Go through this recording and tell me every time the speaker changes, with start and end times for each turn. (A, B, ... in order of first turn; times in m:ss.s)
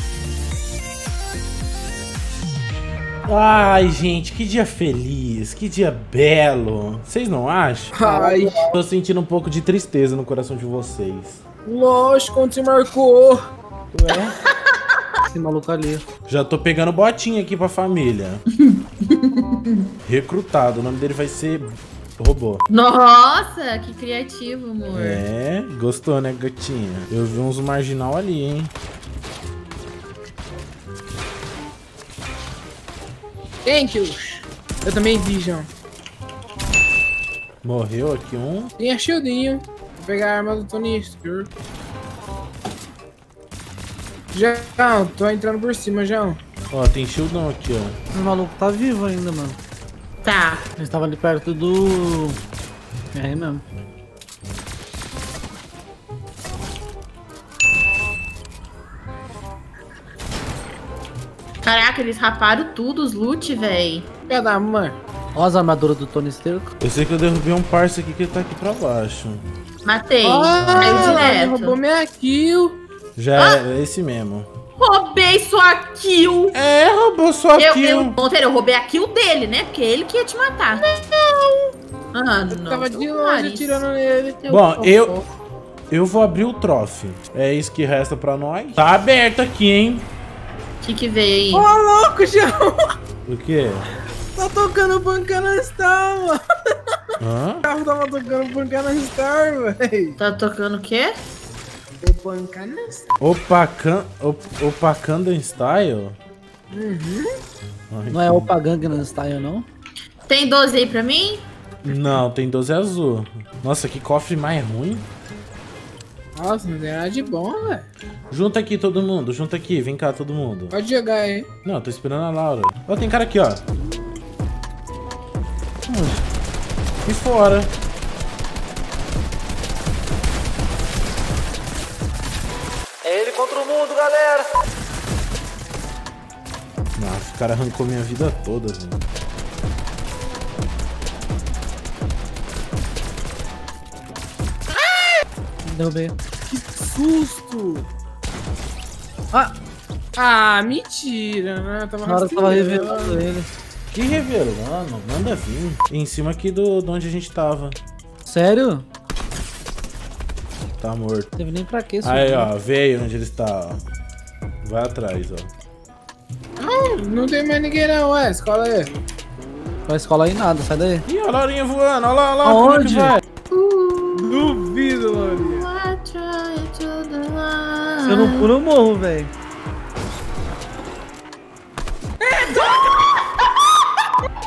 0:03.2-0:08.0 A
0:07.9-0:08.7 B
0:08.0-0:08.7 C
0:08.7-0:11.4 A
0:11.6-0:13.4 B
0:13.9-0:14.3 C
0:15.3-0:16.0 C
0:16.3-0:18.4 A
0:18.6-0:19.9 D
0:20.0-0:22.6 A
0:22.7-0:25.2 D
0:24.9-0:28.7 A
0:33.6-0:35.7 B
0:37.6-0:38.7 A
0:38.8-0:41.5 B
0:44.3-0:46.4 B
0:46.7-0:48.0 A
0:48.1-0:49.6 C
0:50.2-0:50.6 D
0:50.8-0:52.4 C
0:53.1-0:53.6 C
1:01.6-1:04.1 D
1:04.3-1:05.0 B
1:05.3-1:06.7 C
1:06.8-1:09.4 A
1:09.8-1:11.8 D
1:10.2-1:12.8 B
1:10.6-1:11.3 A
1:13.2-1:14.5 A
1:13.4-1:13.6 D
1:14.8-1:16.6 D
1:16.5-1:18.2 A
1:17.6-1:20.9 D
1:20.9-1:21.7 B
1:22.1-1:23.8 D
1:22.5-1:25.2 B
1:24.5-1:25.2 A
1:25.9-1:30.1 A
1:30.8-1:31.7 D
1:31.5-1:32.9 B
1:33.2-1:33.9 A
1:34.4-1:37.0 B
1:37.2-1:37.7 A
1:37.6-1:40.2 B
1:40.2-1:41.2 D
1:42.0-1:43.0 B
1:43.2-1:46.2 A
1:46.7-1:47.3 B
1:47.9-1:48.5 A
1:48.1-1:49.7 C
1:50.3-1:51.4 D
1:51.8-1:55.1 A
1:56.4-1:57.9 B
1:58.3-2:00.8 A
2:00.7-2:01.5 B
2:01.6-2:03.6 A
2:05.9-2:06.2 C
2:07.0-2:07.7 A
2:13.0-2:14.5 C
2:17.0-2:19.0 A
2:25.6-2:26.1 C
2:26.5-2:27.9 B
2:30.2-2:33.2 B
2:32.0-2:33.5 C
2:33.9-2:37.8 A
2:38.2-2:38.8 C
2:40.8-2:41.3 A
2:41.4-2:42.5 C
2:42.0-2:43.8 A
2:44.6-2:45.5 A
2:46.6-2:48.9 B
2:49.9-2:51.0 C
2:51.0-2:53.2 A
2:52.4-2:53.2 C
2:53.5-2:54.4 D
2:54.2-2:55.7 B
2:55.4-2:58.5 D
2:58.1-2:59.3 C
3:02.2-3:03.3 B